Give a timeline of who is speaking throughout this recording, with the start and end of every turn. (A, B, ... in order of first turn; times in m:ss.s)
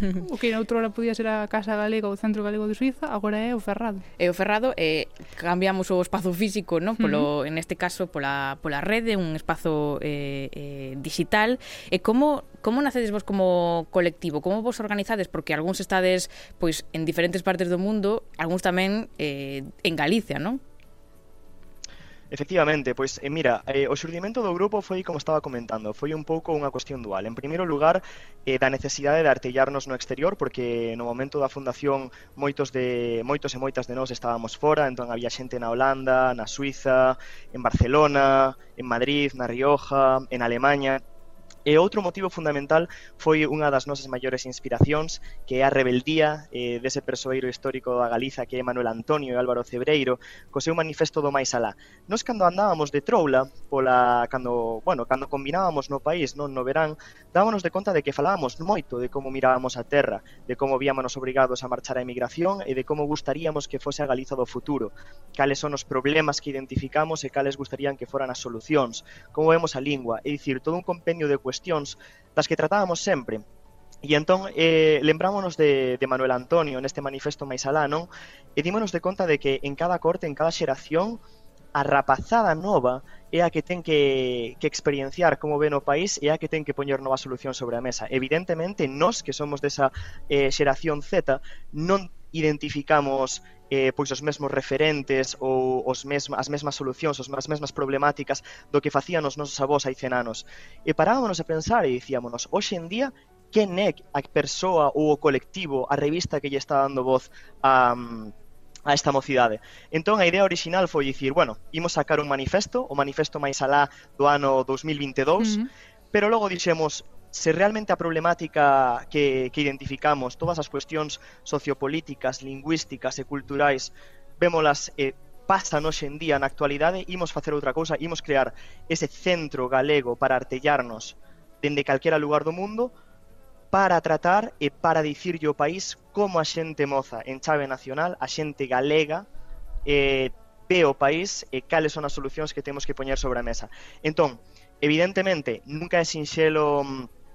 0:00.2-0:04.0 A
0:04.2-0:20.6 B
0:07.0-0:07.3 A
0:22.3-0:41.0 C
0:41.6-1:13.4 C
1:14.0-1:21.2 C
1:21.7-1:48.3 C
1:48.8-2:12.9 C
1:55.4-1:55.7 A
2:13.7-2:19.3 C
2:19.8-2:27.1 C